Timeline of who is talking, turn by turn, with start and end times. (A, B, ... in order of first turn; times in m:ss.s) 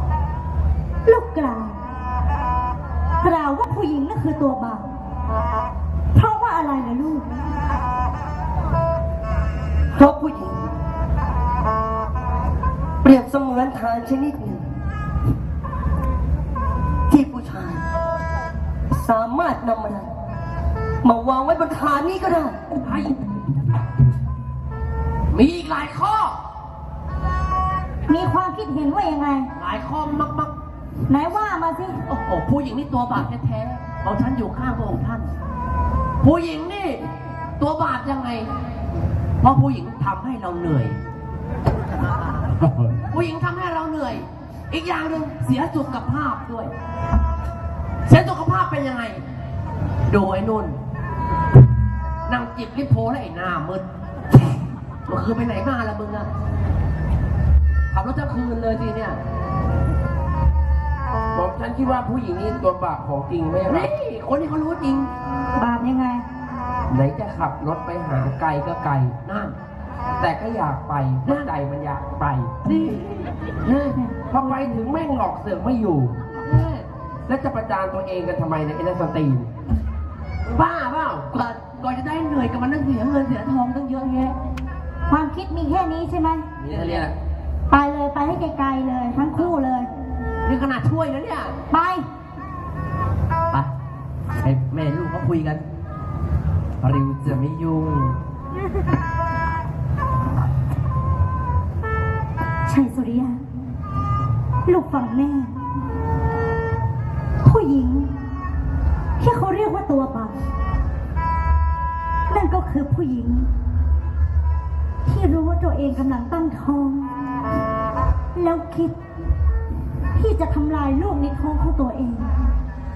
0:01.1-0:01.8 A
0:03.2-0:04.8 A
0:06.1-0:07.3 A
0:09.9-0:10.6 B
0:13.0-0:14.6 B
0:17.1-0:17.8 B
0:18.9-0:20.1 B
0:21.0-0:22.6 B
0:22.8-0:23.1 C
0:25.3-0:26.4 C
0:28.1-0:29.5 A
0:29.6-0:30.5 C
0:31.1-0:32.0 A
0:32.1-0:35.3 C
0:36.2-0:38.5 C
0:39.4-0:41.0 C
0:43.0-0:46.7 C
0:48.1-0:49.2 C
0:50.1-0:50.8 C
0:52.3-0:53.8 C
0:55.1-0:56.3 C
0:57.9-0:59.2 C
1:01.3-1:03.9 D
1:03.7-1:05.1 C
1:05.6-1:06.2 A
1:06.9-1:09.2 D
1:09.2-1:09.6 C
1:10.2-1:12.5 D
1:11.2-1:11.5 C
1:12.7-1:14.0 C
1:14.0-1:14.6 A
1:14.3-1:16.2 D
1:16.4-1:16.9 C
1:17.3-1:19.5 D
1:20.5-1:24.4 C
1:25.1-1:26.5 A
1:26.6-1:27.1 C
1:26.7-1:27.1 D
1:27.7-1:29.9 A
1:30.4-1:31.6 C
1:31.7-1:32.1 A
1:34.4-1:35.6 C
1:36.8-1:38.2 C
1:42.7-1:43.4 A
1:44.7-1:45.5 A
1:47.4-1:48.1 A
1:49.2-1:50.4 A
1:52.3-1:53.5 A
1:55.1-1:57.1 A
1:58.3-1:59.0 A
2:00.1-2:02.3 A